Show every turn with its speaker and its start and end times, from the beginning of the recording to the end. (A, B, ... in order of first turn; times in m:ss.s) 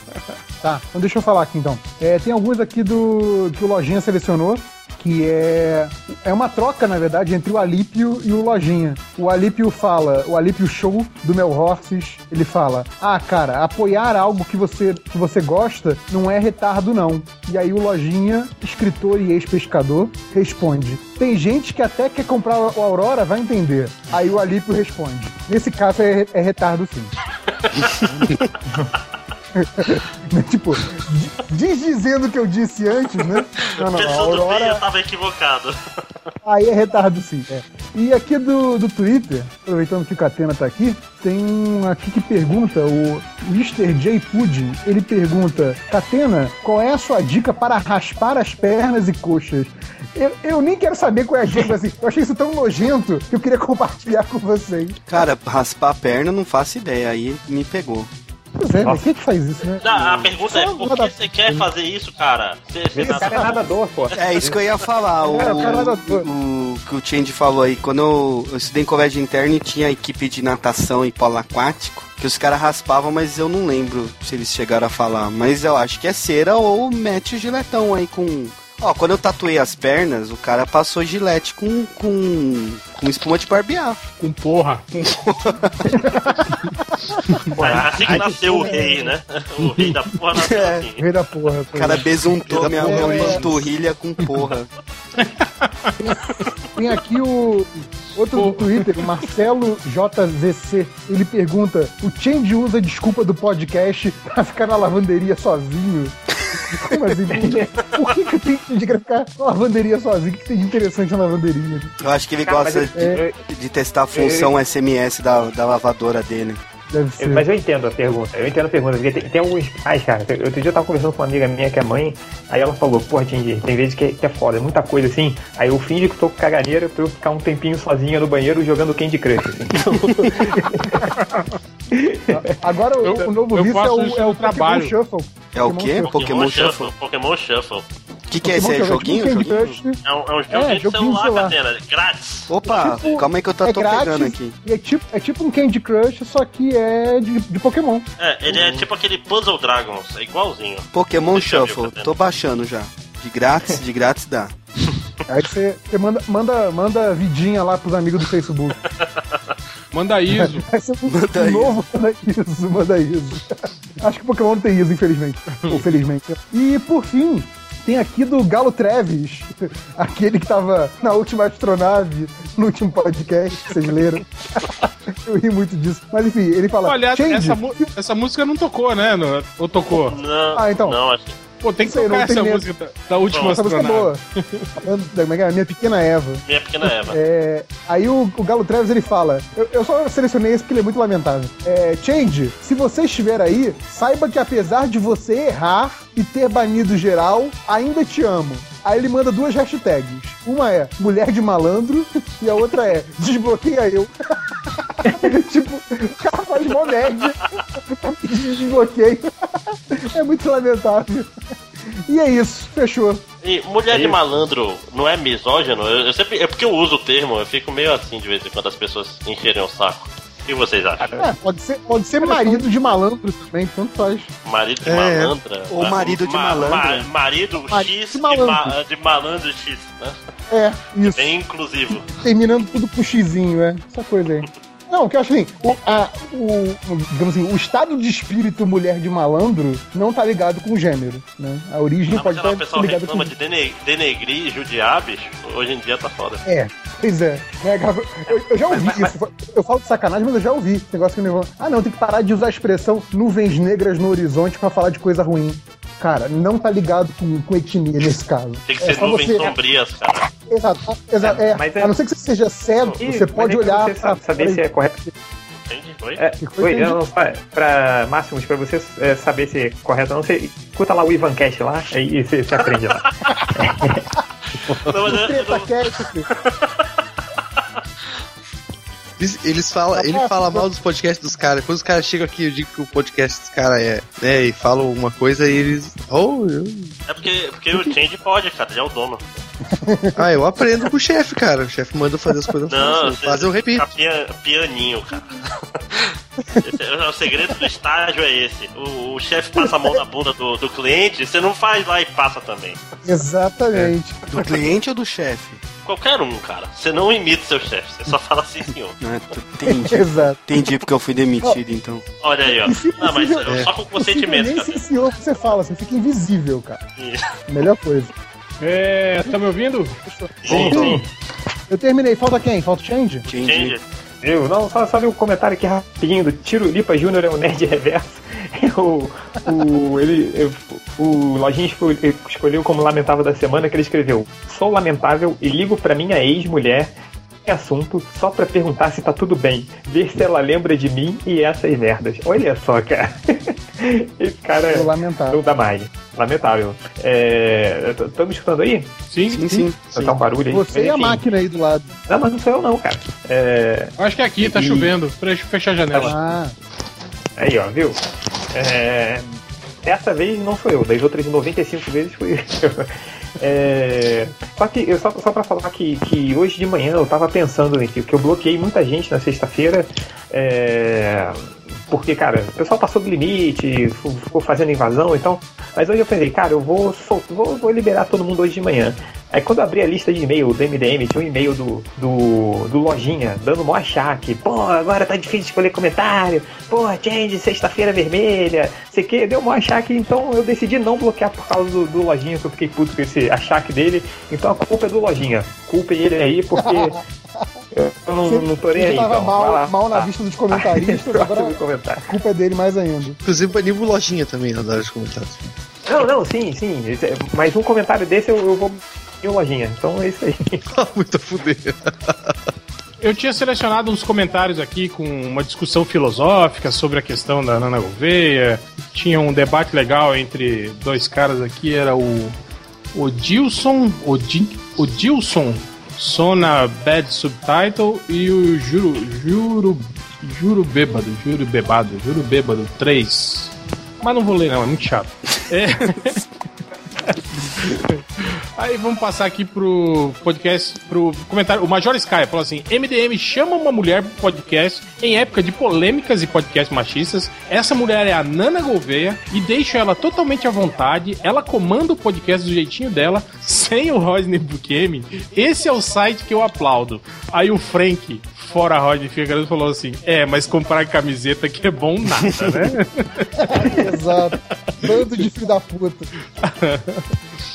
0:00.6-0:27.1 A
0:28.2-0:28.8 A
0:29.6-0:34.8 A
0:33.6-0:35.8 B
0:36.4-0:55.0 A
0:55.1-0:58.1 C
0:58.6-1:01.6 A
0:58.8-0:59.1 D
0:59.8-1:04.8 B
0:59.9-1:00.3 D
1:02.9-1:04.6 D
1:03.0-1:03.6 A
1:04.1-1:24.0 C
1:05.2-1:06.3 A
1:05.2-1:05.9 D
1:24.2-1:24.9 E
1:24.9-1:25.9 C
1:26.0-1:26.4 A
1:27.3-1:27.6 E
1:27.6-1:28.8 D
1:27.6-1:29.1 A
1:27.6-1:31.0 B
1:29.6-1:30.0 E
1:30.4-1:30.9 C
1:31.0-1:33.6 A
1:31.7-1:34.7 C
1:32.6-1:33.4 D
1:32.6-1:33.6 F
1:34.2-1:34.5 E
1:35.2-1:36.0 E
1:36.8-1:46.2 A
1:38.3-1:39.1 E
1:46.7-1:52.0 A
1:47.3-1:47.7 D
1:52.0-1:56.6 C
1:52.4-1:53.4 D
1:54.1-1:54.6 D
1:56.9-1:57.5 A
1:57.2-2:11.1 D
2:11.9-2:12.4 D
2:12.3-2:16.1 A
2:13.0-2:15.0 E
2:15.5-2:16.9 C
2:16.0-2:17.8 B
2:18.3-2:19.8 C
2:18.4-2:20.0 A
2:20.0-2:22.5 B
2:20.5-2:21.5 A
2:22.5-2:24.6 C
2:22.6-2:28.9 A
2:28.2-2:32.1 B
2:30.9-2:34.5 C
2:35.3-2:38.8 A
2:39.0-2:39.4 B
2:39.9-2:40.7 E
2:40.3-2:57.9 A
2:41.1-2:41.8 C
2:45.5-2:45.9 E
2:56.8-3:00.2 E
3:00.1-3:01.4 B
3:00.6-3:01.0 A
3:01.6-3:04.7 E
3:01.8-3:02.7 A
3:03.3-3:03.6 B
3:03.4-3:04.2 A
3:04.8-3:24.1 A
3:06.5-3:07.2 B
3:25.0-3:31.3 A
3:32.1-3:33.2 A
3:33.4-3:41.2 B
3:33.9-3:34.2 D
3:41.0-3:41.3 D
3:41.2-3:44.3 A
3:42.2-3:42.6 D
3:44.4-3:50.2 B
3:44.8-3:45.4 F
3:45.7-3:47.1 C
3:47.7-3:48.7 A
3:50.5-3:51.3 A
3:51.0-3:52.1 B
3:52.2-4:03.3 A
4:02.1-4:06.4 B
4:06.4-4:19.6 A
4:08.7-4:09.1 D
4:18.7-4:20.3 B
4:20.5-4:25.1 A
4:21.2-4:22.0 D
4:22.8-4:25.0 D
4:25.7-4:26.2 B
4:26.2-4:34.0 D
4:26.4-4:27.0 A
4:34.9-4:35.7 B
4:35.0-4:36.3 A
4:36.3-4:36.9 B
4:39.2-4:47.0 F
4:40.0-4:40.6 A
4:47.1-4:49.2 B
4:49.8-4:50.2 A
4:50.2-4:53.9 F
4:52.7-4:56.1 B
4:56.6-5:02.8 B
4:59.6-5:00.0 A
5:03.0-5:04.5 A
5:04.3-5:05.6 C
5:05.8-5:09.0 B
5:09.0-5:12.0 C
5:09.7-5:10.4 A
5:12.2-5:14.8 B
5:12.4-5:16.8 A
5:13.5-5:13.7 F
5:17.0-5:17.2 B
5:17.5-5:18.1 A
5:18.6-5:20.0 E
5:20.1-5:21.0 A
5:20.5-5:21.1 D
5:20.5-5:20.8 B
5:20.5-5:20.8 F
5:21.7-5:23.3 A
5:23.3-5:23.8 C
5:23.3-5:23.8 B
5:24.2-5:36.9 D
5:37.5-5:48.9 D
5:44.7-5:45.4 A
5:49.1-5:49.7 E
5:49.3-5:49.9 C
5:49.8-5:51.2 D
5:50.5-5:52.0 A
5:52.1-5:55.0 D
5:54.0-5:56.2 E
5:56.0-5:56.6 A
5:57.4-5:58.0 D
5:58.5-5:59.3 D
5:59.8-6:37.0 D
6:36.6-6:37.4 A
6:37.7-6:42.1 D
6:38.3-6:43.2 A
6:43.2-6:45.5 F
6:45.9-6:50.6 D
6:50.7-6:52.4 F
6:53.0-7:02.4 E
7:02.9-7:16.2 E
7:17.1-7:43.3 E
7:43.4-7:46.1 A
7:46.4-7:47.0 E